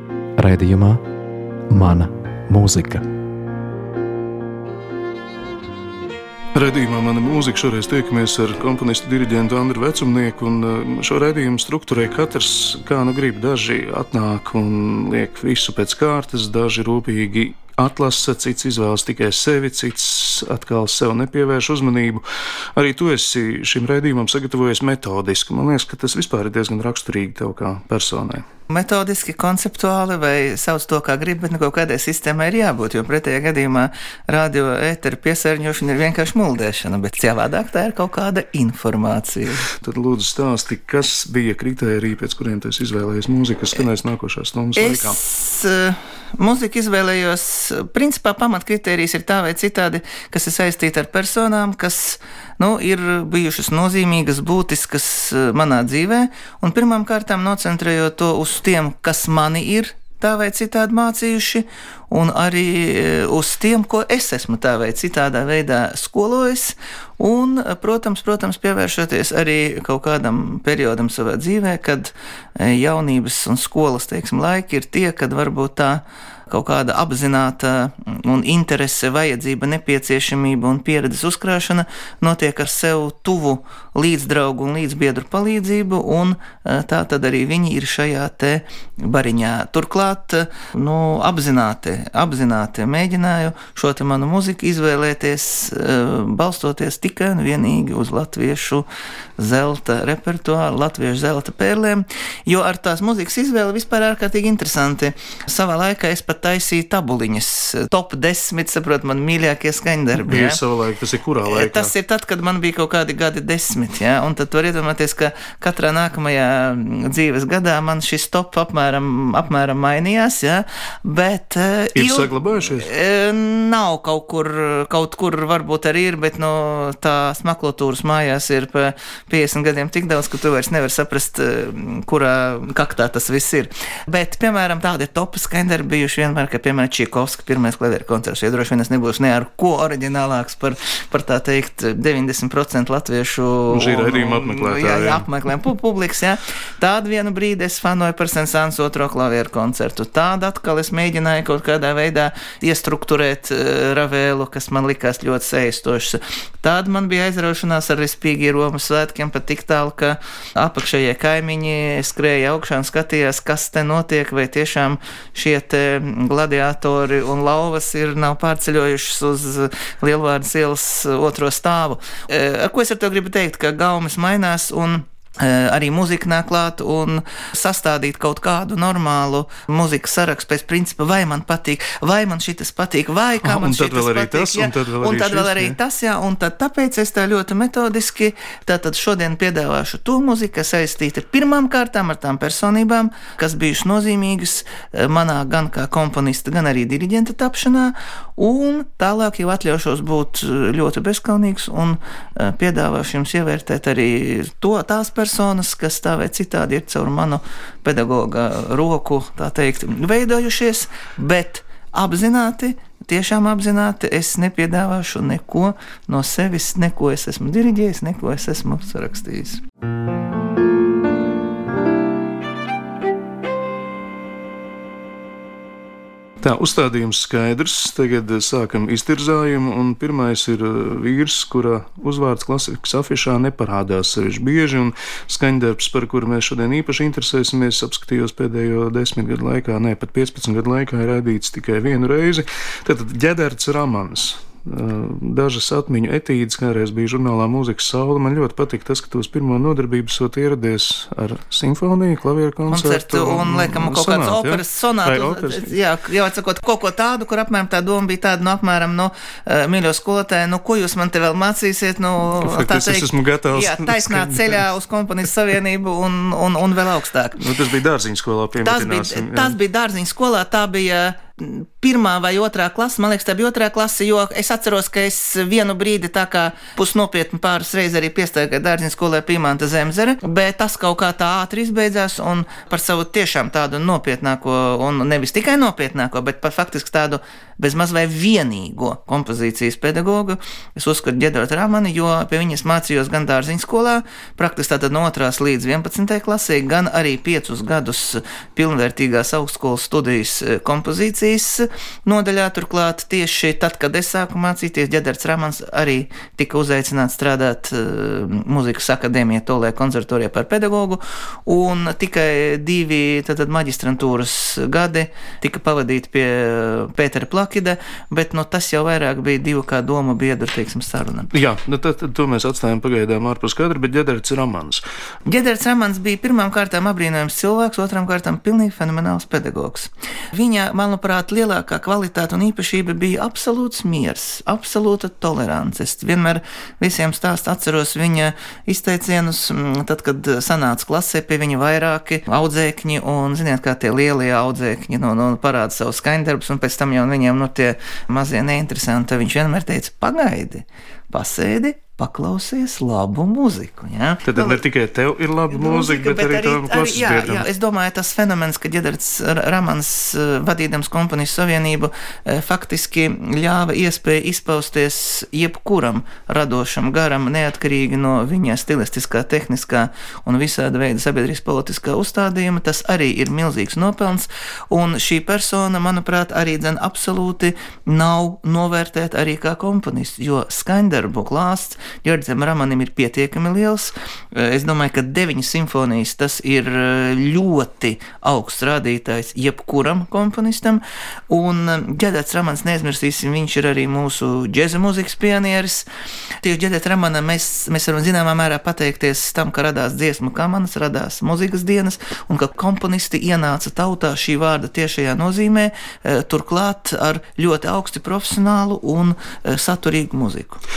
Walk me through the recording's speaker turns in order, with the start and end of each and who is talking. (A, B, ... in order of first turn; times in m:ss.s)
0:00.4-0:01.0 A
0:01.7-0:03.0 A
0:06.5-0:22.2 B
0:22.7-0:28.4 B
0:28.7-0:39.6 C
0:39.7-0:45.2 B
0:44.8-1:38.9 C
1:39.4-1:50.6 C
1:50.2-1:51.9 B
1:51.4-3:39.6 C
2:01.9-2:02.9 B
2:23.7-2:25.2 B
3:03.4-3:05.8 B
3:46.4-4:15.8 B
4:12.7-4:27.4 C
4:22.4-4:24.6 B
4:27.4-4:29.6 B
4:28.6-5:21.3 C
5:21.3-5:24.8 B
5:25.2-5:54.6 C
5:54.2-5:57.5 B
5:55.5-6:35.9 C
6:36.4-6:50.6 C